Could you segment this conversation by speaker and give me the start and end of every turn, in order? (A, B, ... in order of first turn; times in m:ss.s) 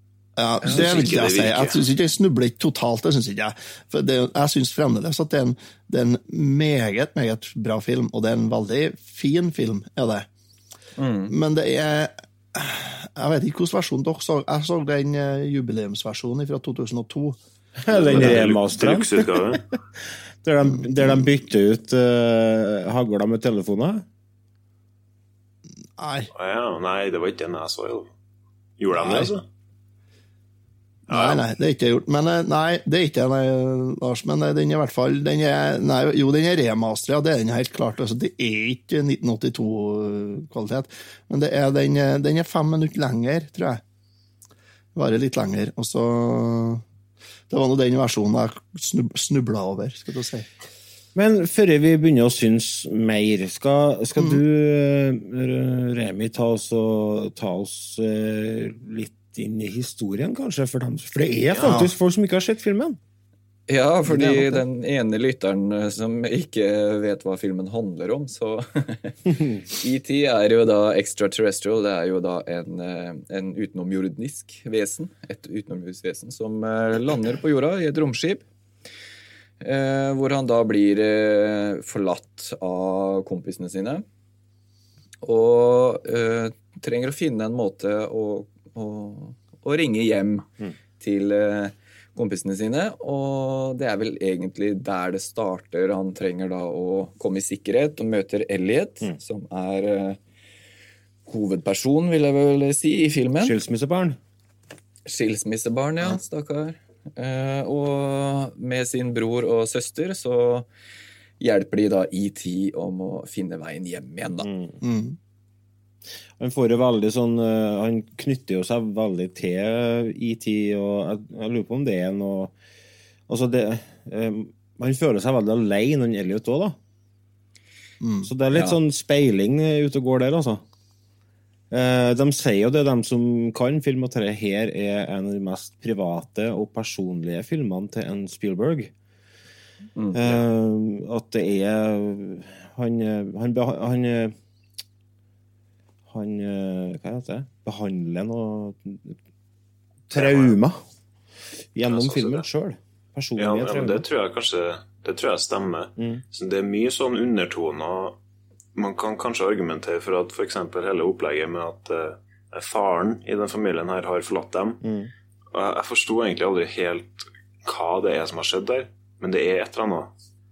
0:00.4-0:10.3 A
0:00.6-0:01.9 B
0:11.0-0:11.3 C
0:11.3-0:17.4 A
0:17.8-0:19.6 D
0:17.9-0:19.6 B
0:18.1-0:18.4 A
0:20.4-0:24.0 D
0:20.7-0:21.1 A
0:26.0-0:26.3 A
0:26.3-0:28.1 B
0:28.8-0:29.4 B
0:28.9-0:29.3 A
0:31.1-0:43.8 A
0:31.1-0:31.4 B
0:44.9-0:46.8 A
0:47.5-0:50.5 A
0:51.1-1:03.0 D
1:01.6-1:01.9 A
1:03.7-1:18.4 C
1:04.1-1:04.6 D
1:19.6-1:24.0 C
1:25.2-1:30.5 C
1:31.0-1:40.2 C
1:41.3-1:43.6 C
1:43.4-1:44.2 D
1:45.0-1:50.7 C
1:51.4-1:54.5 C
1:54.4-1:54.8 D
1:54.8-1:55.2 A
1:56.4-2:02.5 D
2:03.3-2:06.8 D
2:08.0-2:08.3 A
2:08.2-2:10.6 D
2:08.5-2:08.8 C
2:11.7-2:18.9 D
2:20.0-2:20.4 C
2:20.1-2:24.3 D
2:26.1-2:29.2 D
2:30.1-2:30.8 D
2:30.1-2:30.6 B
2:31.7-2:34.0 D
2:31.8-2:32.5 B
2:33.4-2:38.2 B
2:36.0-2:36.2 D
2:38.7-2:44.8 B
2:44.8-2:45.1 D
2:45.5-2:50.1 B